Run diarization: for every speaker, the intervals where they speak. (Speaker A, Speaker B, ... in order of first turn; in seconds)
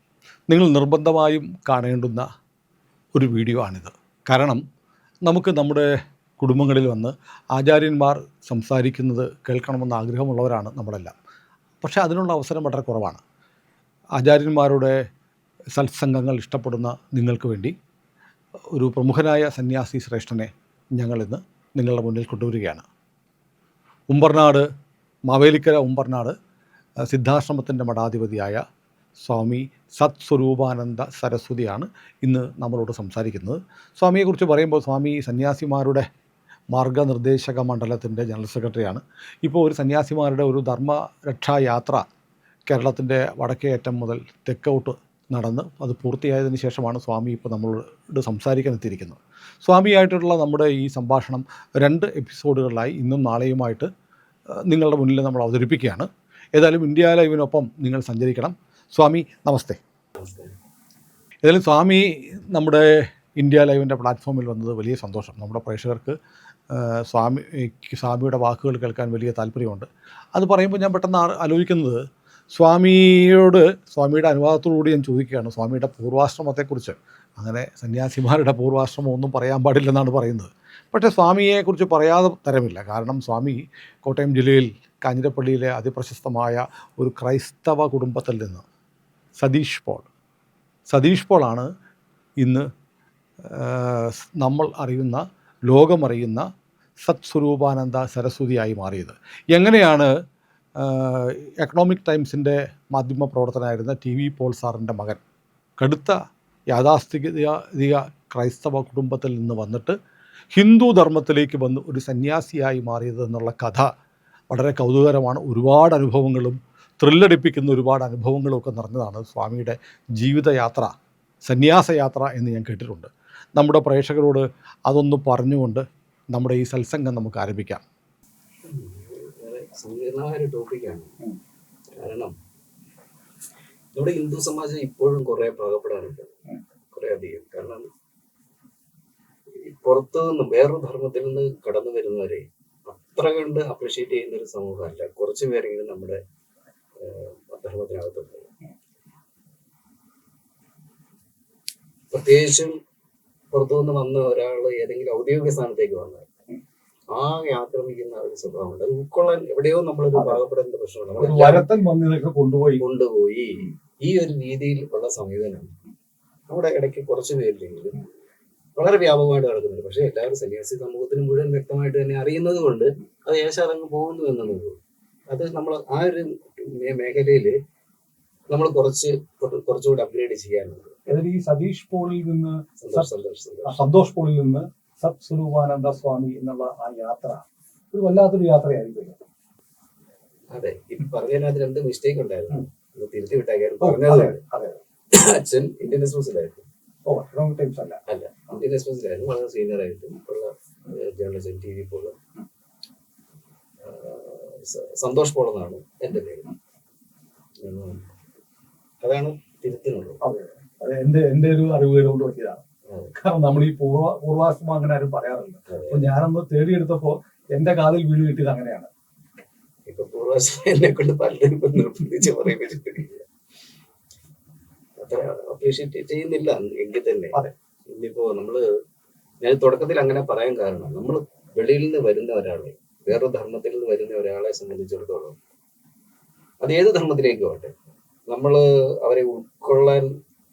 Speaker A: 0.5-2.3, 3.1-4.6, 5.2-5.9, 6.4-11.2, 11.8-13.2, 14.2-15.0, 15.8-17.8, 18.7-22.9, 24.1-24.7, 25.3-26.4, 27.1-28.6, 29.2-36.1, 36.7-42.0, 42.7-53.9, 54.7-59.8, 61.4-66.2, 66.7-88.7, 89.4-90.1, 90.9-91.7, 92.4-92.7, 93.5-96.5, 97.0-100.1, 100.8-105.2, 105.8-106.2, 106.7-110.0, 110.5-113.9, 114.5-120.9, 121.5-127.8
Speaker B: 60.2-60.5, 128.7-131.1, 132.0-132.3, 133.9-136.3, 136.9-137.9, 139.6-146.2, 147.0-148.5, 152.1-152.8, 153.5-156.3, 157.1-161.7, 162.8-165.7, 166.5-168.0, 168.8-174.8, 175.3-177.6, 178.5-181.0, 182.8-183.8, 190.5-194.4, 195.1-196.7, 198.1-202.2, 203.8-206.5, 207.6-208.1, 209.0-210.2, 212.9-213.1, 215.7-216.1, 219.9-223.3, 225.0-228.7, 229.4-235.4, 236.6-237.7, 238.3-240.1
Speaker C: 160.1-160.4, 161.2-162.8, 181.1-183.1, 183.6-189.2, 193.8-194.8, 197.1-198.0, 210.2-212.6, 213.1-218.9